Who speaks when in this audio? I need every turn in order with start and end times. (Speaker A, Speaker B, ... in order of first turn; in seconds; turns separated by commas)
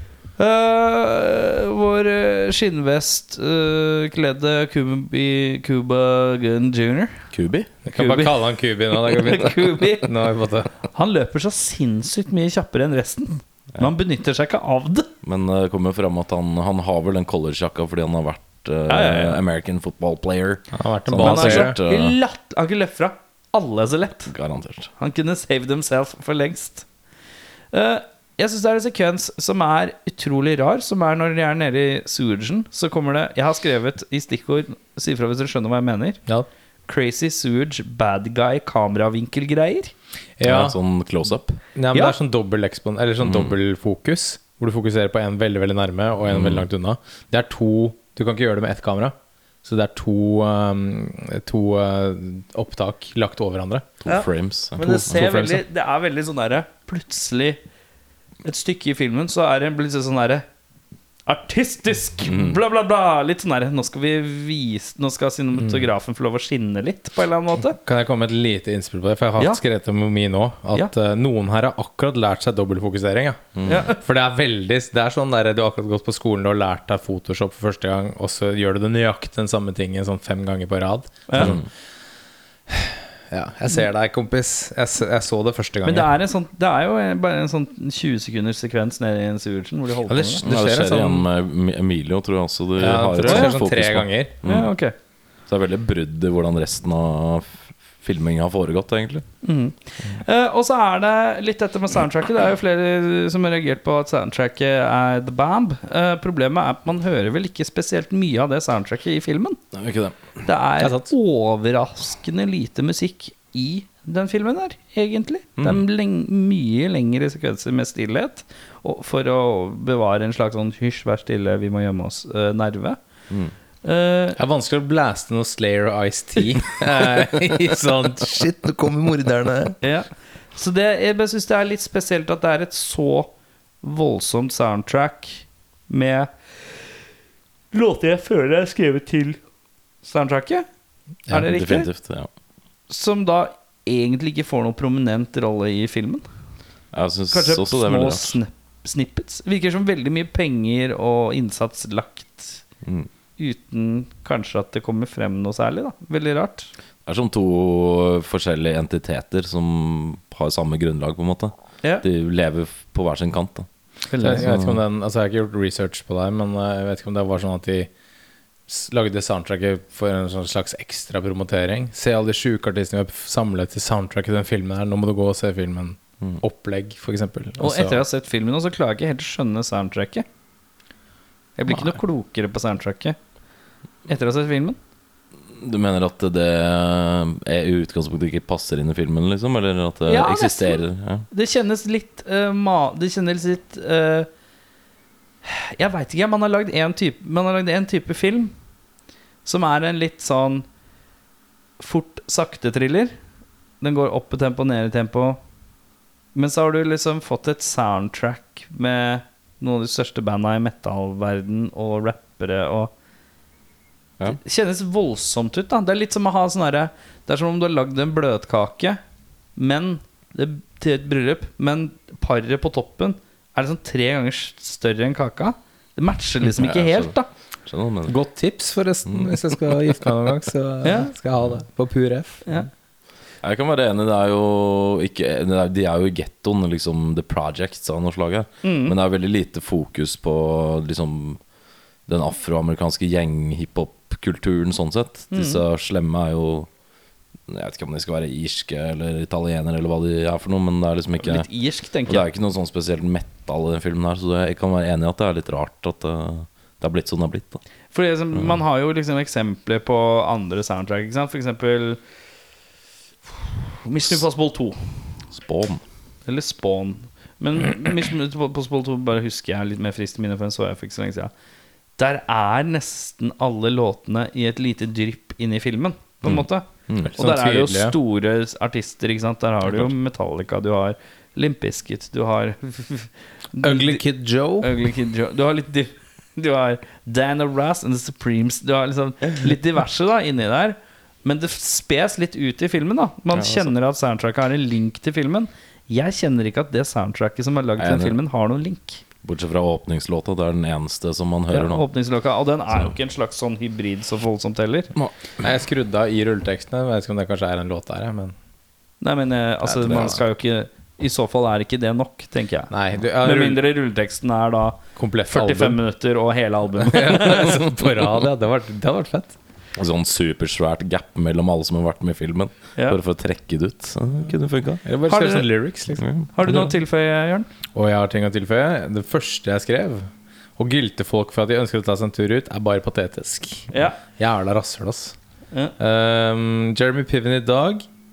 Speaker A: 0.4-7.2, Speaker B: 7.3-7.7, Speaker C: 7.8-10.7, Speaker A: 7.9-15.1, Speaker B: 15.2-22.1, Speaker A: 18.9-19.4, Speaker C: 20.7-21.8, Speaker A: 21.2-24.3, Speaker B: 24.3-24.9, Speaker A: 25.0-26.9, Speaker A: 27.7-36.2, Speaker A: 36.9-39.9, Speaker C: 40.4-40.8, Speaker B: 40.4-41.6, Speaker C: 41.8-53.9, Speaker B: 43.2-43.5, Speaker B: 46.3-46.7, Speaker B: 54.0-55.2, Speaker A: 54.1-57.6, Speaker C: 55.1-55.6, Speaker A: 58.4-60.4, Speaker A: 61.3-67.8, Speaker B: 62.2-62.6, Speaker C: 67.8-81.7, Speaker B: 73.5-73.9, Speaker A: 73.7-74.0, Speaker A: 81.3-81.5, Speaker B: 81.3-81.6, Speaker C: 82.7-86.1, Speaker A: 85.8-90.4, Speaker C: 90.1-91.2, Speaker B: 90.4-94.7, Speaker C: 92.8-94.3, Speaker A: 93.2-93.5, Speaker A: 94.4-94.9, Speaker B: 95.5-99.2, Speaker A: 99.4-109.6, Speaker B: 109.7-110.2, Speaker A: 110.4-123.0, Speaker C: 110.8-111.1, Speaker B: 115.6-115.8, Speaker A: 123.8-124.4, Speaker C: 124.3-129.8, Speaker A: 129.8-136.3, Speaker A: 137.7-139.4, Speaker A: 140.0-140.7, Speaker A: 141.3-141.9, Speaker B: 141.3-142.3, Speaker A: 142.9-146.2, Speaker B: 146.9-148.4, Speaker A: 147.3-152.6, Speaker A: 153.4-156.7, Speaker B: 157.0-163.7, Speaker A: 164.1-164.5, Speaker C: 164.2-167.9, Speaker B: 164.3-164.8, Speaker C: 168.7-178.0, Speaker A: 177.6-180.2, Speaker A: 181.6-183.2, Speaker C: 181.7-181.9, Speaker A: 184.1-184.8, Speaker B: 185.5-191.2, Speaker A: 190.1-194.3, Speaker A: 195.4-198.5, Speaker A: 199.4-200.7, Speaker A: 201.8-203.1, Speaker A: 203.8-205.4, Speaker A: 206.3-212.9, Speaker A: 214.2-219.0, Speaker A: 219.6-227.3, Speaker B: 226.5-227.1, Speaker B: 227.7-228.1, Speaker C: 228.1-232.4, Speaker B: 229.1-229.7, Speaker A: 230.8-231.1, Speaker B: 233.4-241.4, Speaker A: 238.6-238.9, Speaker B: 242.1-246.7, Speaker A: 245.3-245.6, Speaker B: 247.5-251.5, Speaker A: 251.2-252.2, Speaker B: 252.1-257.6, Speaker A: 257.9-262.0, Speaker A: 263.8-264.8, Speaker B: 265.3-265.8, Speaker A: 266.2-271.3, Speaker A: 272.0-284.0, Speaker B: 276.2-277.1, Speaker C: 277.1-277.9, Speaker B: 279.6-279.9, Speaker C: 283.6-284.7, Speaker A: 284.6-299.0, Speaker B: 293.3-293.7, Speaker B: 297.8-298.2, Speaker B: 299.2-301.9, Speaker A: 301.5-304.9, Speaker C: 305.4-308.3, Speaker A: 309.0-317.6, Speaker C: 309.6-310.2, Speaker C: 312.7-313.6, Speaker C: 314.9-315.8, Speaker C: 316.8-319.4, Speaker B: 319.8-324.8, Speaker C: 324.8-326.1, Speaker A: 325.1-325.5, Speaker B: 326.0-326.7, Speaker A: 326.3-327.5, Speaker C: 327.7-335.1, Speaker A: 333.7-334.0, Speaker C: 335.8-337.9